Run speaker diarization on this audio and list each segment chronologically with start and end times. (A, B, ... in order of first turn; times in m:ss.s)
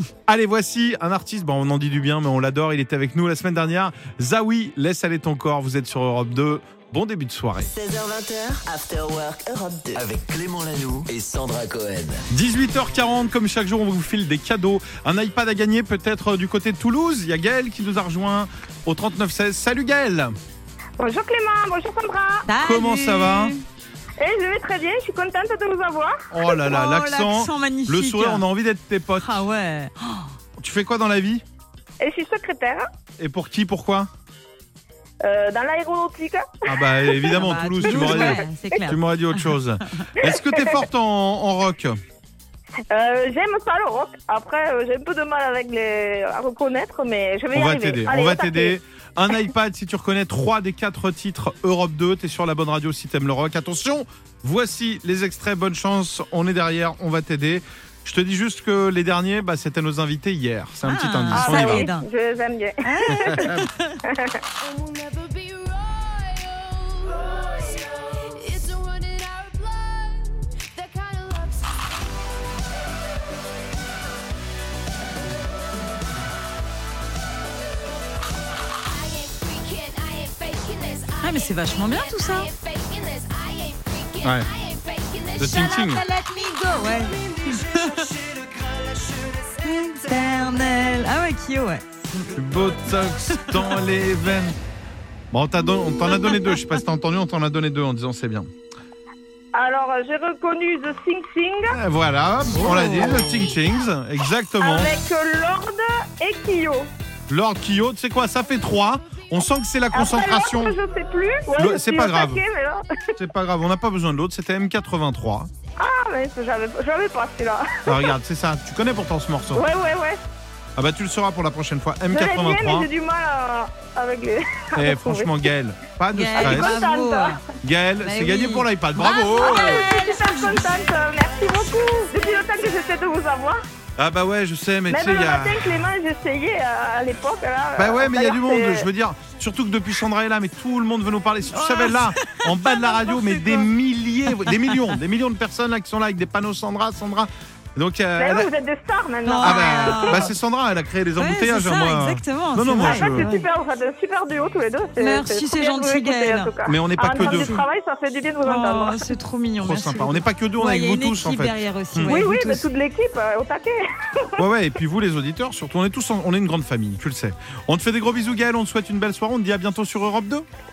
0:00.3-0:07.7 A
0:07.6-0:10.1 B
0:10.0-0:12.2 C
0:12.3-0:20.3 A
0:21.0-0:22.5 D
0:22.5-0:23.6 E
0:22.6-0:23.6 A
0:24.2-0:26.5 D
0:26.3-0:29.4 A
0:26.7-0:28.4 E
0:29.2-0:30.3 E
0:30.6-0:31.4 A
0:32.0-0:32.9 D
0:33.2-0:34.1 A
0:35.2-0:37.3 D
0:36.7-0:42.0 A
0:37.3-0:39.5 E
0:42.9-0:48.8 D
0:47.5-1:01.9 A
1:00.9-1:02.1 E
1:01.3-1:03.5 D
1:02.8-1:04.0 E
1:03.1-1:03.7 A
1:04.0-1:04.4 D
1:05.0-1:06.4 F
1:08.4-1:10.1 F
1:10.8-1:11.4 F
1:19.1-1:21.2 F
1:21.2-1:22.5 E
1:22.4-1:25.6 F
1:24.2-1:24.5 A
1:25.4-1:26.0 A
1:25.4-1:28.1 E
1:29.6-1:32.3 E
1:32.4-1:34.6 A
1:35.3-1:38.5 A
1:39.5-1:41.8 D
1:41.7-1:45.0 A
1:42.7-1:43.2 E
1:44.6-1:46.9 D
1:47.3-1:50.8 A
1:49.9-1:52.8 D
1:51.6-1:52.4 A
1:53.2-1:55.5 A
1:55.8-1:58.1 D
1:57.9-1:59.7 A
1:59.6-2:00.2 D
2:00.8-2:02.9 A
2:02.1-2:05.4 D
2:04.8-2:06.8 A
2:06.1-2:07.4 E
2:06.4-2:07.4 D
2:07.6-2:09.9 A
2:08.0-2:12.4 E
2:09.4-2:13.6 D
2:14.0-2:15.8 A
2:14.9-2:18.9 D
2:17.8-2:28.5 A
2:21.5-2:23.7 E
2:24.3-2:24.9 E
2:28.2-2:30.2 D
2:29.2-2:30.3 E
2:29.4-2:33.3 A
2:31.2-2:33.4 E
2:32.8-2:39.1 D
2:35.0-2:36.6 E
2:36.6-2:37.6 A
2:37.2-2:37.6 E
2:38.4-2:42.7 E
2:39.6-2:42.2 A
2:42.1-2:44.4 D
2:44.4-2:50.4 A